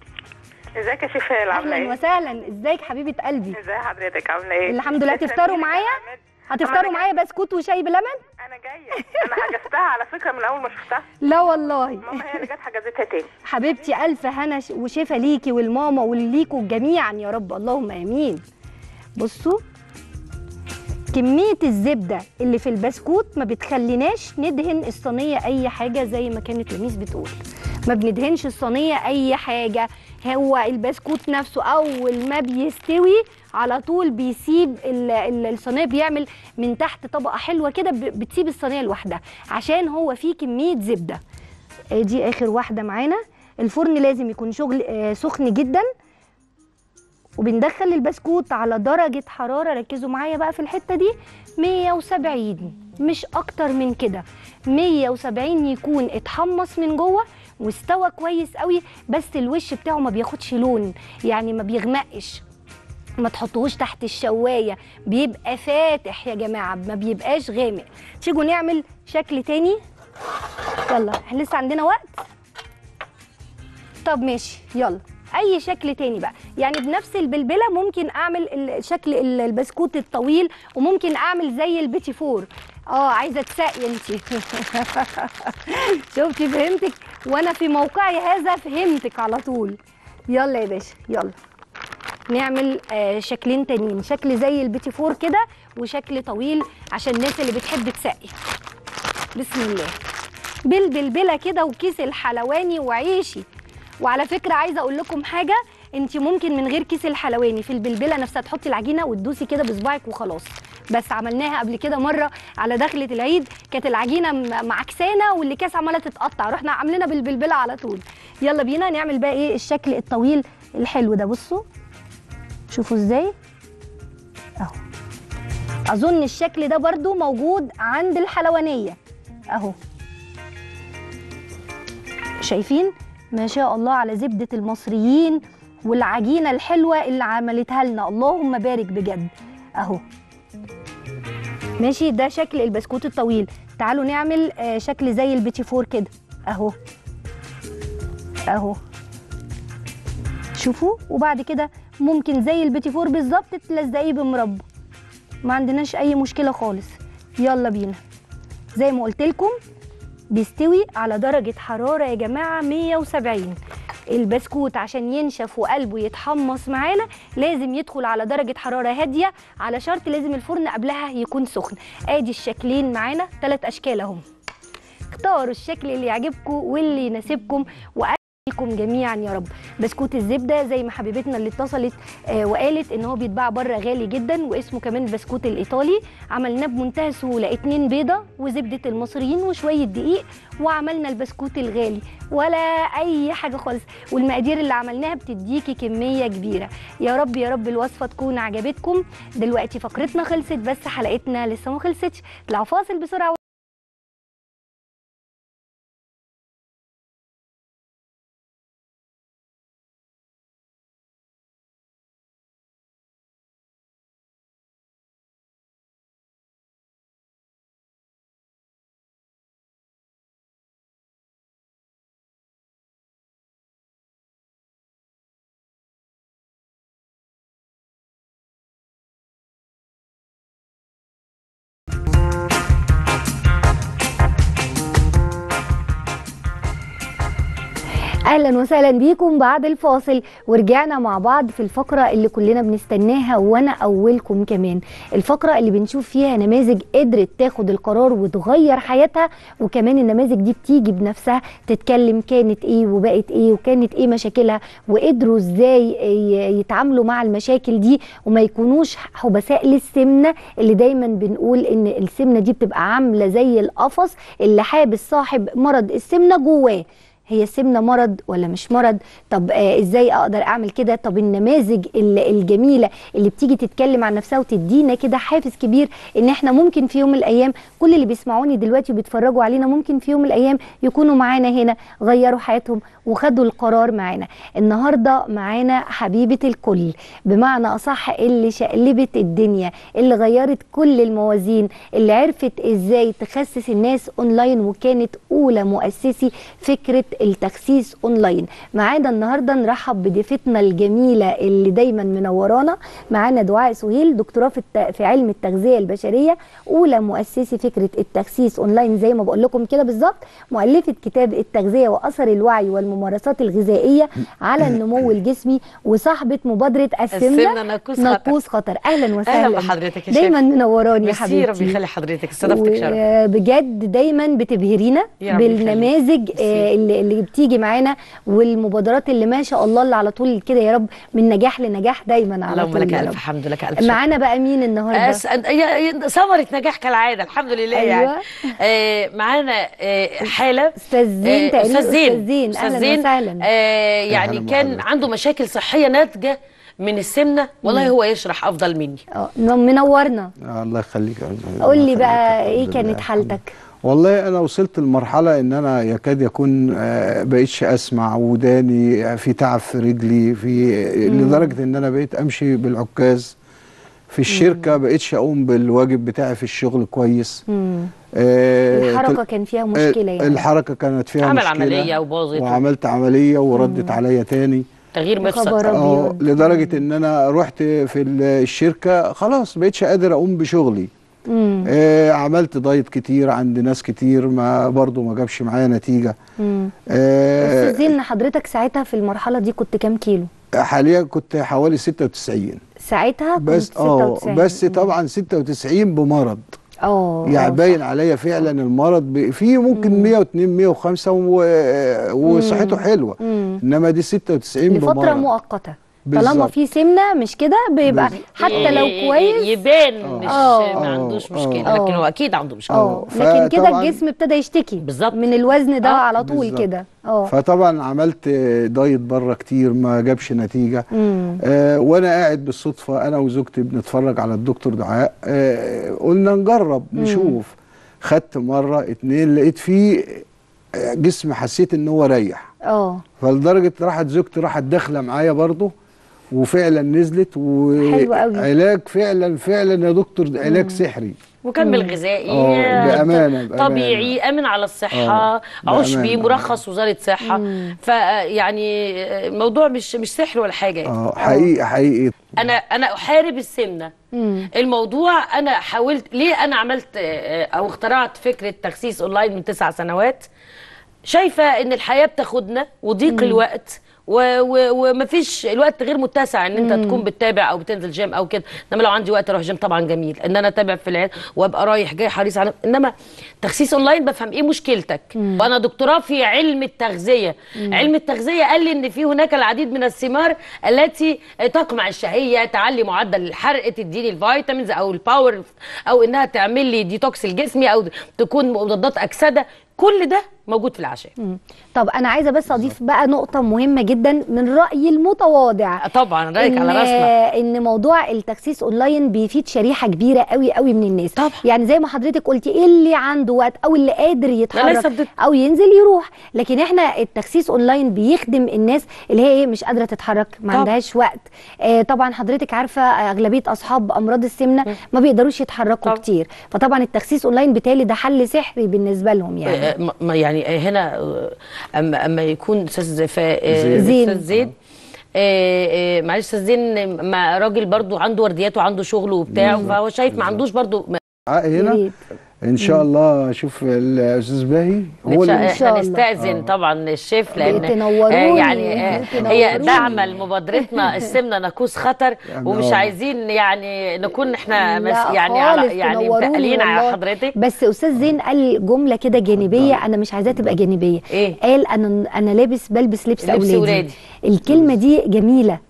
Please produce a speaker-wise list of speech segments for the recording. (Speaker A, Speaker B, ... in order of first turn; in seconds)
Speaker A: 0.8-2.0, 3.5-7.1, 8.4-11.1, 12.0-13.3
Speaker B: 1.5-3.6, 4.7-8.2, 9.0-9.3, 11.2-12.3, 13.4-18.4, 19.2-19.6, 21.1-41.2, 41.9-45.9, 47.4-62.4, 63.2-69.8, 70.9-72.2, 74.0-89.8, 90.3-91.3, 92.3-98.3, 99.3-100.0, 100.7-103.4, 104.0-121.6, 122.7-123.3, 125.9-129.0, 132.4-140.0, 141.8-146.7, 148.5-148.8, 150.6-154.6, 155.4-158.0, 158.7-159.6, 160.3-163.6, 164.1-174.2, 175.1-203.4, 238.3-321.8, 322.4-333.2, 333.8-335.2, 337.7-338.5, 340.8-343.4, 347.6-347.9, 349.1-350.3, 351.6-353.5, 361.1-361.5, 364.3-364.7, 367.5-367.9, 368.7-370.4, 373.6-374.0, 375.2-376.8, 381.3-381.7, 386.4-386.7, 387.4-390.3, 392.8-394.9, 396.8-397.8, 399.7-400.1, 402.2-403.6, 404.7-409.6, 410.3-410.8, 411.6-412.0, 412.7-417.3, 420.9-421.4, 427.0-427.4, 432.6-433.0, 437.8-438.5, 440.4-440.8, 441.6-442.0, 442.8-443.1, 447.2-447.8, 451.2-451.5, 454.1-454.5, 463.1-463.4, 466.6-467.0, 475.2-475.5, 477.6-477.9, 491.2-495.8, 496.4-519.7, 523.7-524.2, 529.4-529.7, 531.5-532.0, 532.6-532.8, 535.3-536.0, 537.4-540.0, 540.6-541.0, 544.5-555.6
Speaker C: 317.1-318.3, 319.2-320.4, 321.0-323.0, 325.2-326.7, 332.5-334.0, 334.9-349.0, 371.2-372.6, 374.9-375.7, 408.1-412.8, 414.8-415.2, 441.4-450.9, 452.4-453.9, 454.6-460.3, 461.1-491.1, 495.8-497.1, 501.1-501.4, 504.5-505.1, 519.5-524.5, 525.2-531.0, 535.0-547.3, 551.1-551.4, 553.2-553.9
Speaker D: 344.1-344.9, 350.4-363.4, 364.1-367.4, 368.1-369.2, 369.8-374.7, 375.7-380.9, 381.6-386.1, 386.9-387.9, 390.6-392.6, 393.4-396.6, 397.2-405.3, 406.1-406.5, 407.8-408.9, 410.0-411.7, 412.7-414.0, 416.2-416.6, 417.3-420.8, 421.4-430.2, 430.8-432.5, 433.2-435.7, 436.3-441.2, 442.3-444.1, 444.9-446.6, 450.9-452.3, 523.5-524.5, 529.3-530.4, 531.3-531.8, 532.4-535.5, 536.2-536.5, 537.4-537.7, 538.4-540.2, 542.3-542.9, 549.3-550.5, 554.5-554.7